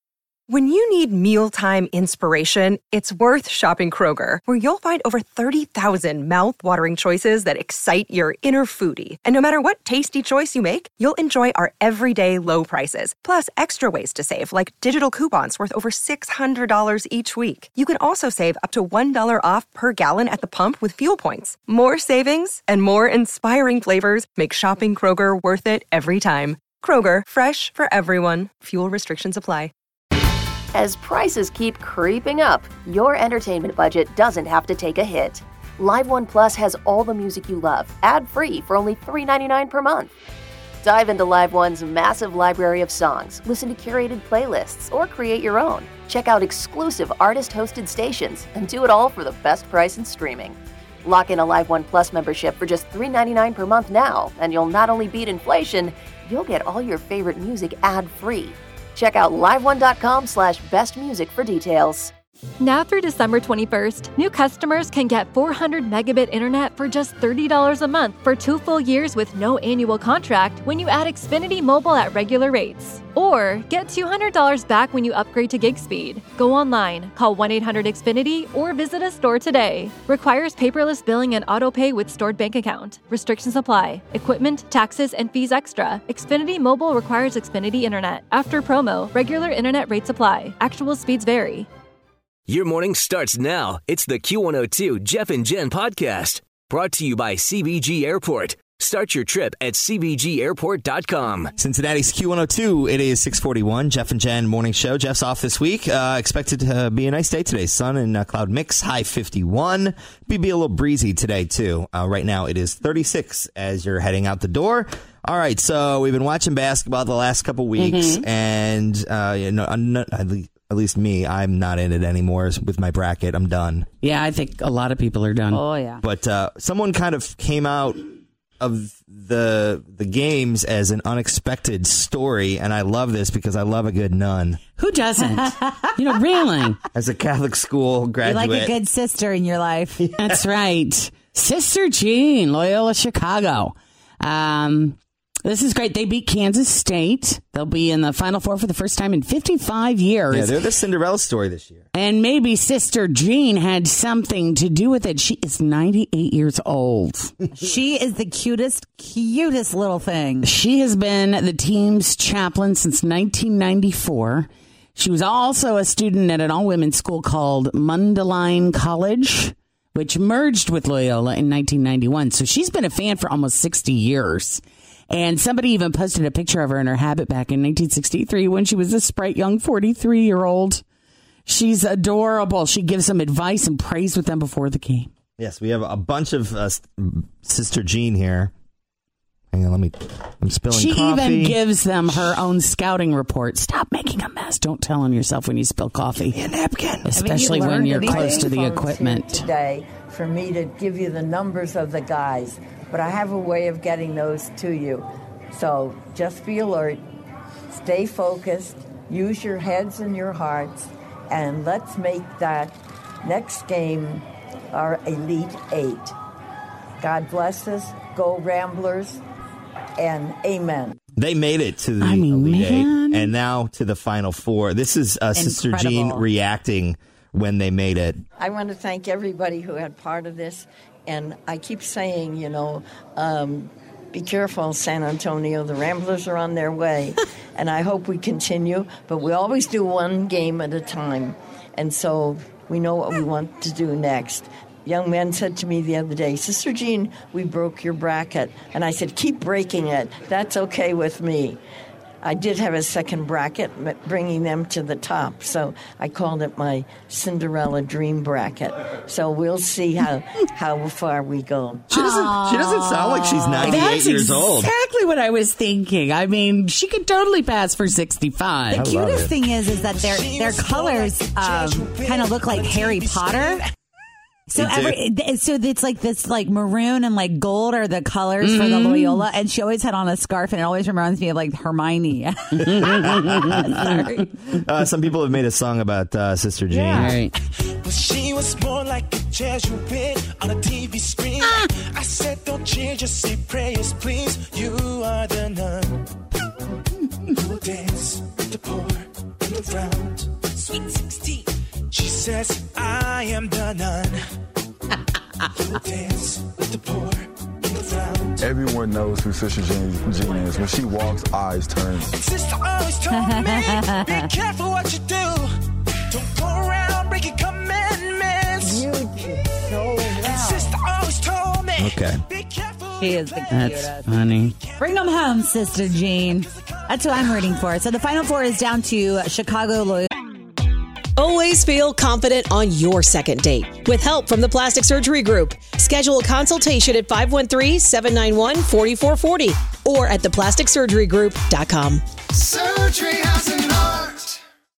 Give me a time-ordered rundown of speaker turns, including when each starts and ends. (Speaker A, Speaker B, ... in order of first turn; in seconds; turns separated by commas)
Speaker A: 0.5-29.7, Speaker B: 30.7-40.1, Speaker B: 40.8-62.1, Speaker C: 62.6-91.7, Speaker D: 92.5-101.6, Speaker E: 101.6-123.9, Speaker F: 117.8-118.2, Speaker F: 124.0-125.6, Speaker G: 125.5-126.0, Speaker E: 126.0-128.1, Speaker E: 128.6-134.6, Speaker F: 134.8-136.8, Speaker E: 136.9-138.8, Speaker G: 138.2-140.0, Speaker E: 140.0-140.4, Speaker F: 140.2-150.6, Speaker E: 150.3-151.8, Speaker F: 151.9-157.3, Speaker G: 157.6-160.5, Speaker F: 160.4-180.8, Speaker F: 181.5-185.1, Speaker E: 185.4-188.5, Speaker E: 189.5-191.6, Speaker F: 190.7-196.5, Speaker F: 197.1-199.5, Speaker G: 197.1-198.5, Speaker H: 197.9-207.0, Speaker H: 207.7-216.1, Speaker H: 217.0-219.2, Speaker H: 220.0-221.0, Speaker E: 221.2-228.2, Speaker F: 222.0-223.3, Speaker G: 225.4-226.2, Speaker H: 228.4-251.6, Speaker H: 252.2-262.1, Speaker E: 261.9-264.7, Speaker G: 262.0-263.8, Speaker F: 263.6-268.9, Speaker G: 268.7-273.6, Speaker E: 268.7-269.4, Speaker I: 269.2-273.7, Speaker G: 274.5-282.9, Speaker E: 274.6-275.0, Speaker F: 278.4-279.3, Speaker F: 282.6-284.2, Speaker E: 282.6-287.1, Speaker F: 286.9-287.3, Speaker I: 287.0-287.3, Speaker I: 287.8-296.1, Speaker I: 297.3-304.2, Speaker I: 305.5-308.4, Speaker J: 308.4-312.1, Speaker I: 312.1-315.5, Speaker G: 313.3-313.8, Speaker I: 316.1-318.9, Speaker H: 318.6-320.6, Speaker I: 320.2-327.6, Speaker E: 321.8-322.2, Speaker G: 323.0-324.0, Speaker F: 323.5-324.6, Speaker G: 324.8-330.1, Speaker K: 331.2-342.0, Speaker K: 343.6-343.9